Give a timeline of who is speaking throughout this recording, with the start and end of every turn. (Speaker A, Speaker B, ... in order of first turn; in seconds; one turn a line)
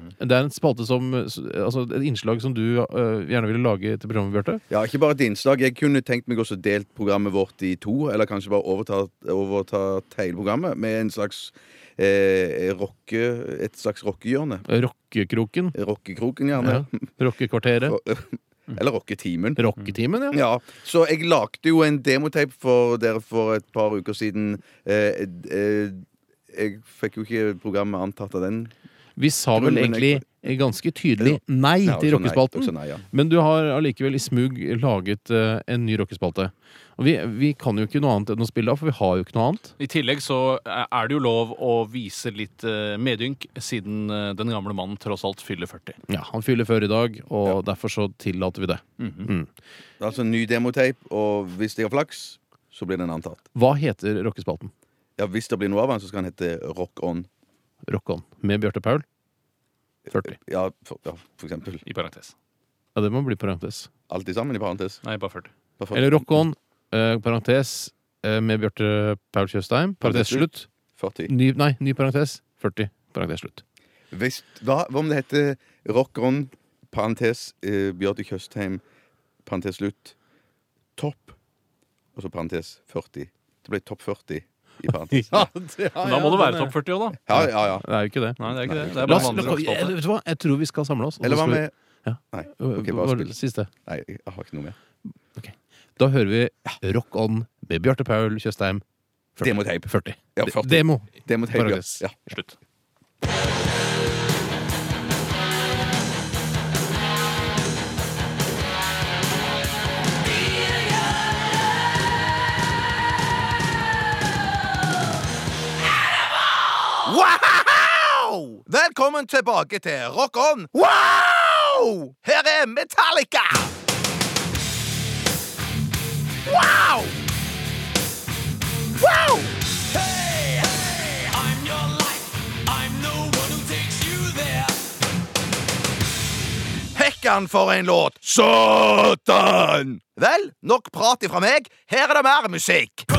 Speaker A: 0.2-4.6
Speaker B: 4.7-14.7
Speaker A: 14.7-15.8
Speaker B: 15.8-17.0
Speaker A: 16.6-18.0
Speaker B: 17.8-19.6
Speaker A: 19.6-20.4
Speaker B: 20.3-28.7
Speaker A: 29.2-39.7
Speaker B: 29.6-30.2
Speaker B: 31.2-33.0
Speaker C: 39.8-46.0
Speaker A: 46.1-49.5
Speaker C: 49.0-49.3
Speaker B: 50.0-53.5
Speaker A: 53.5-54.7
Speaker B: 55.2-57.3
Speaker A: 57.9-59.0
Speaker A: 60.1-60.4
Speaker B: 60.2-61.8
Speaker C: 61.9-62.3
Speaker A: 63.0-63.9
Speaker B: 64.1-65.0
Speaker C: 65.0-65.5
Speaker B: 65.8-66.4
Speaker A: 65.9-70.7
Speaker B: 70.0-71.3
Speaker A: 71.3-73.6
Speaker B: 74.1-78.8
Speaker B: 79.5-80.2
Speaker B: 81.0-81.4
Speaker B: 82.2-85.5
Speaker A: 85.1-86.8
Speaker C: 86.0-87.2
Speaker B: 87.3-87.9
Speaker A: 87.3-93.7
Speaker C: 88.4-90.0
Speaker B: 88.4-89.6
Speaker B: 91.2-91.7
Speaker B: 92.3-93.3
Speaker B: 93.9-94.8
Speaker A: 95.4-98.8
Speaker A: 99.4-102.1
Speaker B: 99.4-102.2
Speaker B: 117.0-123.7
Speaker B: 126.5-127.2
Speaker B: 129.0-129.5
Speaker C: 129.9-134.8
Speaker B: 136.9-143.1